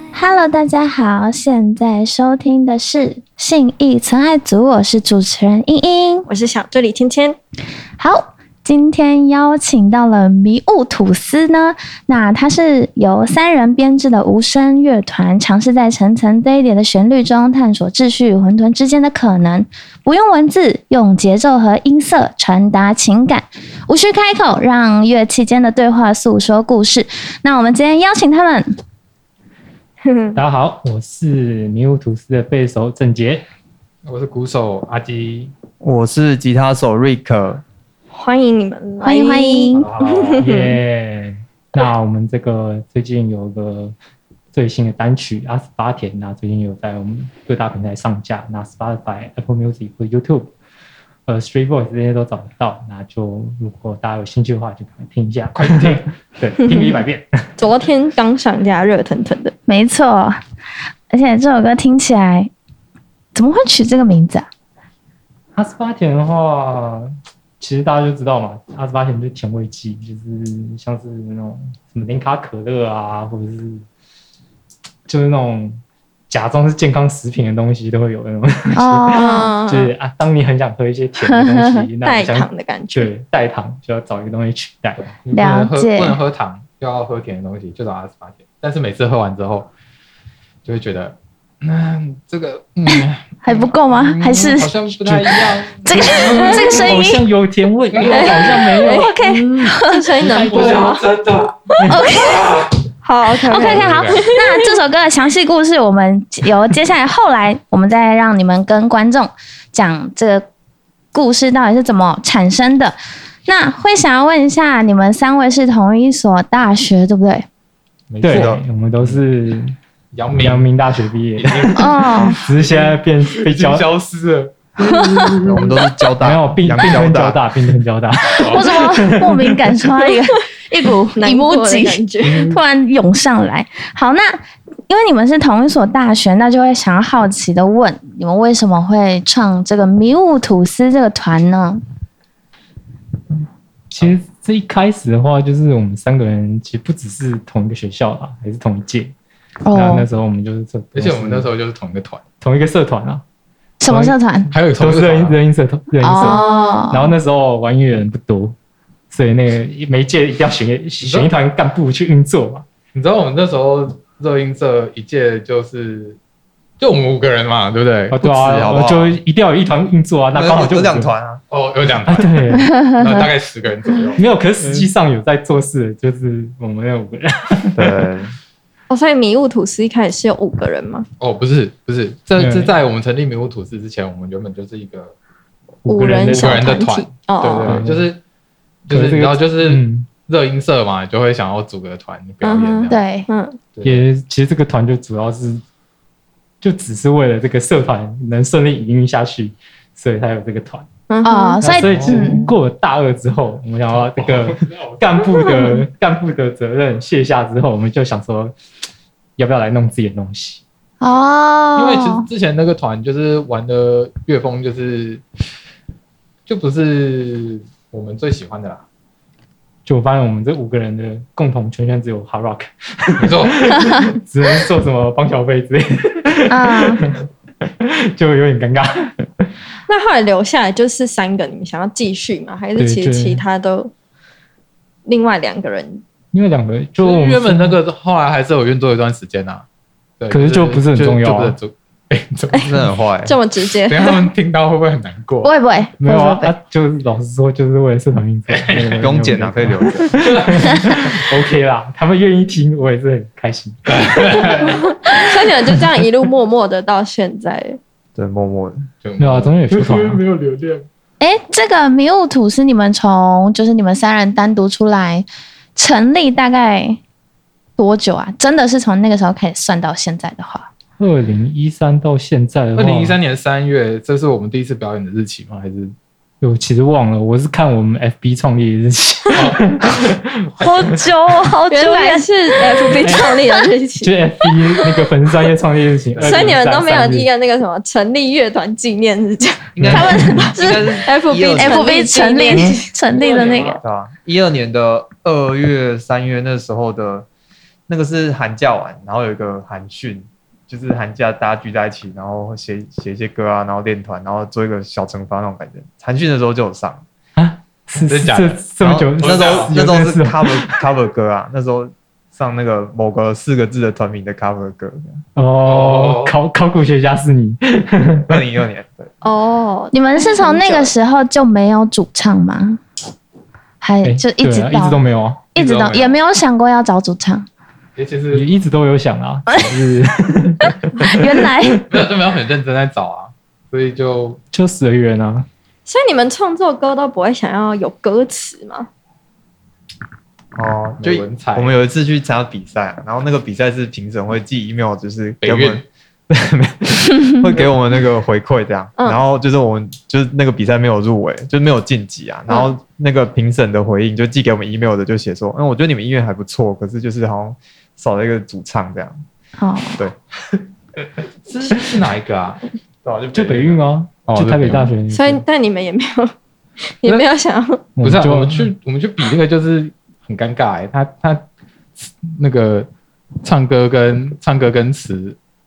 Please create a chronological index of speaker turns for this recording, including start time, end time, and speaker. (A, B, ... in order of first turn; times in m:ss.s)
0:00.1-0:06.3 A
0:06.3-0:07.4 B
0:08.0-0:28.7 A
0:30.0-0:30.4 B
0:30.4-0:33.4 C
0:34.0-0:35.5 D
0:35.8-0:37.6 E
0:38.1-0:40.8 B
0:39.0-0:39.9 A
0:39.8-0:40.5 D
0:40.4-0:44.0 C
0:44.5-0:50.5 C
0:51.3-0:57.4 C
0:55.5-0:56.1 D
0:56.6-0:57.0 B
0:57.6-0:59.6 B
0:59.7-1:00.4 A
1:01.1-1:02.5 A
1:03.4-1:04.4 A
1:05.6-1:13.8 C
1:15.1-1:25.2 C
1:18.7-1:19.5 A
1:19.1-1:19.9 B
1:21.2-1:21.9 A
1:22.0-1:23.1 B
1:25.2-1:29.7 D
1:25.3-1:26.2 A
1:30.6-1:36.6 D
1:33.4-1:34.8 A
1:35.0-1:39.7 C
1:35.9-1:37.2 A
1:36.3-1:36.8 B
1:37.9-1:38.6 D
1:38.1-1:41.0 B
1:39.5-1:40.1 A
1:40.2-1:41.0 C
1:40.3-1:42.7 D
1:41.8-1:42.0 C
1:41.9-1:42.5 A
1:43.0-1:44.8 B
1:43.4-1:50.5 A
1:43.6-1:44.3 D
1:51.1-1:57.5 A
1:58.1-1:59.2 D
1:58.2-1:59.8 C
1:58.3-1:58.6 E
2:00.1-2:00.7 D
2:00.4-2:03.9 C
2:01.4-2:04.6 D
2:01.8-2:02.4 A
2:04.8-2:09.6 C
2:04.9-2:05.4 A
2:05.5-2:07.4 E
2:08.4-2:08.7 D
2:08.4-2:21.8 A
2:11.2-2:12.6 B
2:23.9-2:29.1 C
2:29.6-2:30.1 A
2:29.7-2:31.5 C
2:31.0-2:32.2 D
2:32.4-2:33.2 C
2:33.8-2:34.5 A
2:33.9-2:38.6 C
2:34.5-2:35.4 D
2:36.0-2:37.2 A
2:36.2-2:36.7 B
2:39.1-2:42.6 C
2:41.0-2:41.3 D
2:42.9-2:46.2 D
2:46.8-2:48.7 D
2:48.1-2:51.1 C
2:48.3-2:49.2 E
2:50.3-2:51.4 E
2:51.5-2:54.9 D
2:52.1-2:52.7 C
2:52.6-2:53.3 A
2:54.2-2:58.0 C
2:57.7-2:58.3 E
2:58.9-3:01.1 B
3:01.2-3:05.1 D
3:02.4-3:02.7 C
3:05.8-3:06.8 C
3:05.9-3:07.8 B
3:06.2-3:08.2 D
3:07.7-3:08.1 C
3:08.9-3:13.0 D
3:08.9-3:10.1 C
3:12.4-3:13.6 B
3:12.9-3:13.3 A
3:13.7-3:14.1 D
3:13.8-3:15.6 C
3:16.6-3:20.9 C
3:21.1-3:21.6 B
3:21.2-3:22.5 A
3:21.6-3:28.5 C
3:21.8-3:22.1 D
3:25.4-3:25.8 B
3:29.4-3:30.6 C
3:31.0-3:32.3 A
3:31.8-3:35.2 D
3:36.5-3:38.8 D
3:39.9-3:47.2 C
3:43.2-3:43.7 D
3:46.5-3:47.0 A
3:47.8-3:49.5 C
3:49.9-3:53.9 B
3:52.8-3:53.4 C
3:55.1-3:56.0 B
3:56.3-3:57.8 C
3:57.0-3:59.7 D
4:00.2-4:02.9 D
4:00.3-4:01.6 C
4:02.6-4:03.4 E
4:03.2-4:04.3 B
4:03.8-4:05.5 D
4:05.4-4:06.5 A
4:06.0-4:14.9 C
4:08.5-4:09.1 D
4:09.0-4:10.2 E
4:10.2-4:10.7 D
4:13.9-4:14.6 D
4:14.7-4:17.8 B
4:18.2-4:18.8 E
4:19.0-4:20.9 D
4:19.2-4:20.2 C
4:21.2-4:27.0 A
4:27.8-4:30.7 A
4:31.0-4:33.2 C
4:32.8-4:35.9 D
4:36.4-4:40.7 C
4:39.3-4:39.6 D
4:40.6-4:43.5 A
4:41.7-4:44.2 B
4:43.0-4:43.3 C
4:44.0-4:47.3 C
4:46.2-4:46.5 D
4:46.2-4:52.9 B
4:49.8-4:52.0 E
4:49.8-4:50.4 C
4:50.0-4:50.5 A
4:51.6-4:53.8 A
4:52.5-4:53.8 C
4:53.8-4:57.3 E
4:57.9-5:07.0 E
5:07.4-5:10.8 C
5:08.0-5:08.7 D
5:08.8-5:15.2 E
5:09.2-5:09.7 D
5:15.4-5:18.3 C
5:15.7-5:16.4 D
5:18.3-5:19.1 E
5:19.2-5:20.9 B
5:19.9-5:22.8 A
5:23.8-5:25.0 A
5:24.0-5:25.4 C
5:25.6-5:27.5 A
5:25.6-5:26.2 D
5:28.0-5:28.5 D
5:28.3-5:31.5 C
5:31.0-5:31.9 A
5:31.9-5:34.4 D
5:34.5-5:35.5 C
5:35.9-5:38.9 B
5:40.6-5:59.2 E
5:41.0-5:41.7 D
5:45.4-5:45.8 D
5:59.6-6:00.0 A
6:01.4-6:02.6 D
6:03.0-6:03.8 E
6:03.3-6:05.4 C
6:04.3-6:04.9 D
6:05.1-6:06.3 B
6:07.0-6:07.8 B
6:08.0-6:08.7 C
6:08.0-6:11.4 D
6:12.0-6:12.9 D
6:13.4-6:15.4 D